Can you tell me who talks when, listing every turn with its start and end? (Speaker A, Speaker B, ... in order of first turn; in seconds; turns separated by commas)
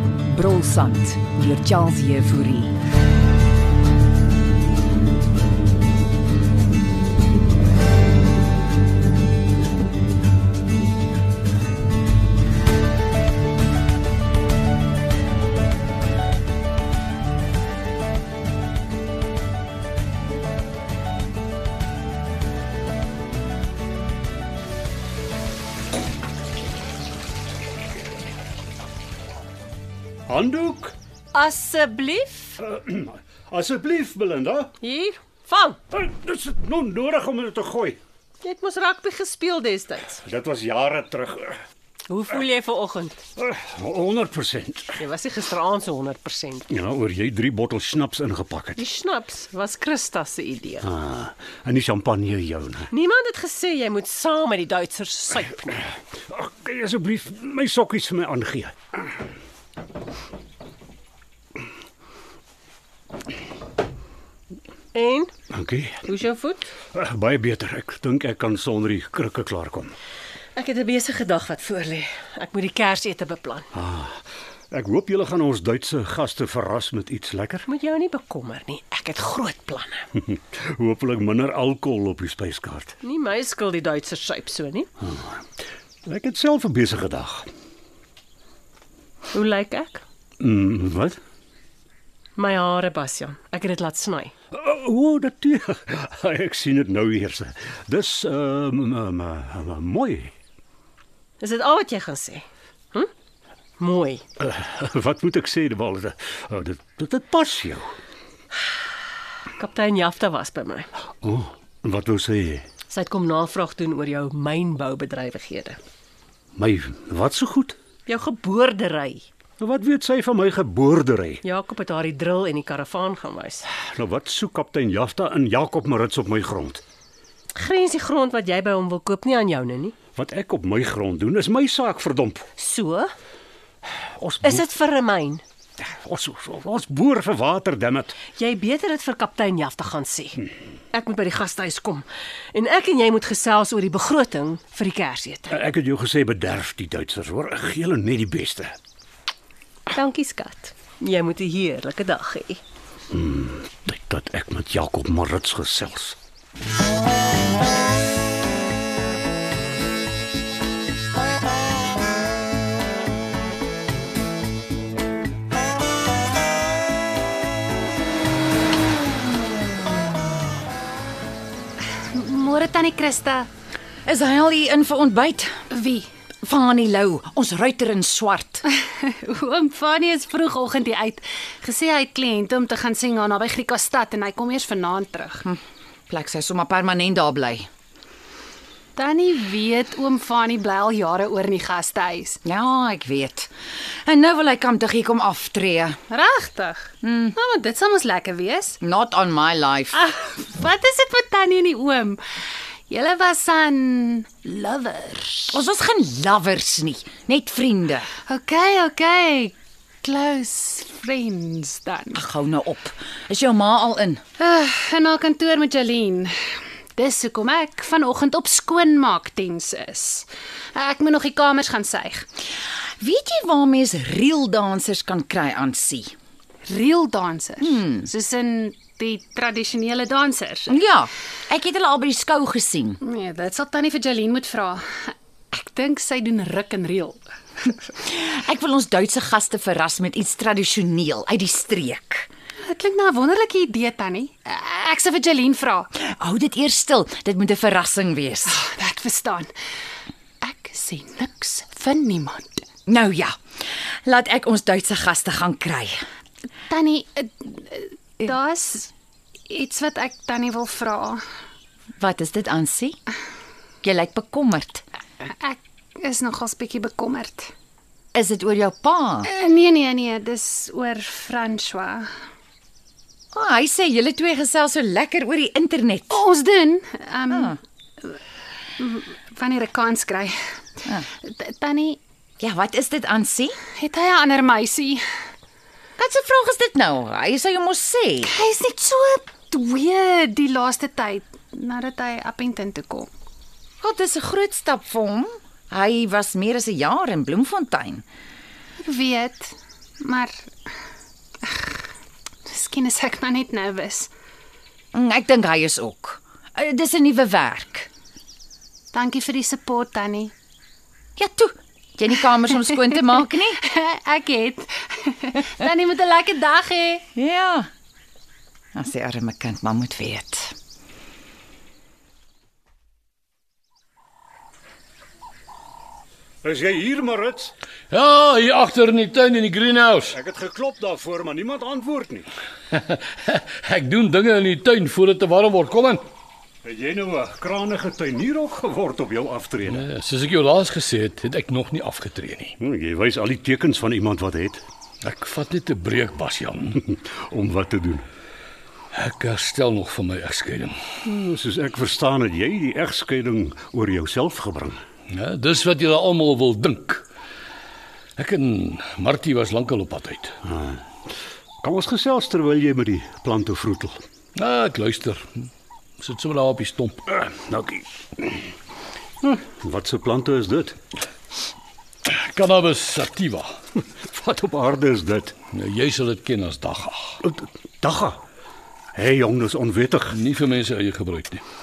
Speaker A: 0.3-2.7, Speaker B: 30.3-30.9, Speaker C: 31.3-32.6, Speaker B: 32.6-34.7, Speaker C: 34.8-35.8, Speaker B: 35.9-38.0, Speaker C: 38.4-40.2, Speaker B: 40.1-41.6, Speaker C: 42.1-43.2, Speaker B: 43.4-45.0, Speaker C: 45.0-46.7, Speaker B: 46.7-48.8, Speaker C: 48.8-50.9, Speaker B: 50.8-52.9, Speaker C: 52.9-55.8, Speaker B: 56.3-58.7, Speaker C: 64.9-65.3, Speaker B: 65.5-66.0, Speaker C: 66.0-66.7, Speaker B: 66.9-69.9, Speaker C: 70.5-73.7, Speaker B: 73.7-74.2, Speaker B: 74.7-77.7, Speaker C: 77.7-80.0, Speaker B: 80.2-82.9, Speaker C: 83.0-84.9, Speaker B: 85.0-85.4, Speaker B: 86.0-87.5, Speaker C: 89.3-90.0, Speaker B: 90.4-91.2, Speaker C: 92.4-94.3, Speaker B: 94.5-100.3, Speaker C: 101.4-103.1, Speaker C: 103.8-104.2, Speaker B: 104.4-107.9, Speaker C: 109.6-110.9, Speaker B: 111.2-112.7, Speaker C: 112.9-115.8, Speaker B: 116.6-117.8, Speaker C: 118.1-119.2, Speaker B: 119.6-121.4, Speaker C: 121.4-123.7, Speaker B: 123.7-126.8, Speaker C: 127.6-129.9, Speaker B: 130.2-132.4, Speaker C: 132.6-133.1, Speaker B: 134.2-134.7, Speaker C: 134.4-135.4, Speaker B: 135.8-138.2, Speaker C: 138.4-145.6, Speaker B: 145.5-148.7, Speaker C: 149.9-152.6, Speaker B: 153.1-156.2, Speaker D: 172.1-173.5, Speaker E: 174.1-175.6, Speaker D: 175.7-176.1, Speaker E: 176.4-178.6, Speaker D: 178.7-185.4, Speaker E: 185.4-187.7, Speaker D: 188.9-192.4, Speaker E: 192.4-193.5, Speaker E: 194.0-196.0, Speaker D: 196.1-198.8, Speaker E: 197.0-197.3, Speaker E: 198.8-200.0, Speaker D: 199.9-202.2, Speaker D: 202.9-205.6, Speaker E: 205.5-208.1, Speaker D: 208.3-212.2, Speaker E: 212.1-214.2, Speaker D: 214.4-216.3, Speaker D: 216.9-222.2, Speaker E: 223.0-226.1, Speaker D: 226.6-230.8, Speaker E: 227.6-228.1, Speaker E: 230.7-233.0, Speaker D: 233.0-237.7, Speaker E: 238.0-242.3, Speaker D: 242.7-245.9, Speaker E: 245.9-248.6, Speaker D: 248.4-249.5, Speaker D: 250.4-252.6, Speaker E: 252.9-253.4, Speaker E: 254.0-256.0, Speaker D: 256.7-258.9, Speaker D: 259.5-261.2, Speaker E: 262.0-263.0, Speaker E: 263.8-264.8, Speaker D: 265.3-267.5, Speaker E: 268.1-269.3, Speaker D: 269.2-272.1, Speaker E: 273.3-276.2, Speaker D: 276.1-278.2, Speaker E: 277.3-277.6, Speaker D: 278.8-280.4, Speaker D: 281.2-282.0, Speaker E: 282.4-283.6, Speaker D: 283.8-285.0, Speaker E: 286.0-288.3, Speaker D: 288.3-293.1, Speaker E: 293.8-298.0, Speaker D: 298.8-300.3, Speaker D: 302.4-304.1, Speaker E: 304.9-307.9, Speaker D: 308.9-310.3, Speaker E: 311.2-313.6, Speaker D: 313.6-317.1, Speaker E: 317.1-317.7, Speaker E: 318.7-320.5, Speaker B: 326.4-327.5, Speaker F: 327.9-330.2, Speaker B: 330.1-332.3, Speaker F: 332.7-336.0, Speaker B: 336.6-339.9, Speaker F: 339.7-342.6, Speaker B: 342.6-344.6, Speaker F: 345.0-346.8, Speaker B: 346.9-348.0, Speaker F: 348.9-350.7, Speaker B: 351.0-354.8, Speaker F: 355.1-357.0, Speaker F: 358.2-360.3, Speaker B: 360.4-360.8, Speaker B: 361.6-364.0, Speaker F: 364.3-365.5, Speaker F: 366.0-367.0, Speaker B: 367.1-368.4, Speaker B: 369.2-370.8, Speaker F: 372.0-373.5, Speaker B: 373.9-375.4, Speaker F: 375.5-377.2, Speaker B: 377.2-378.2, Speaker B: 378.9-380.2, Speaker F: 380.1-381.4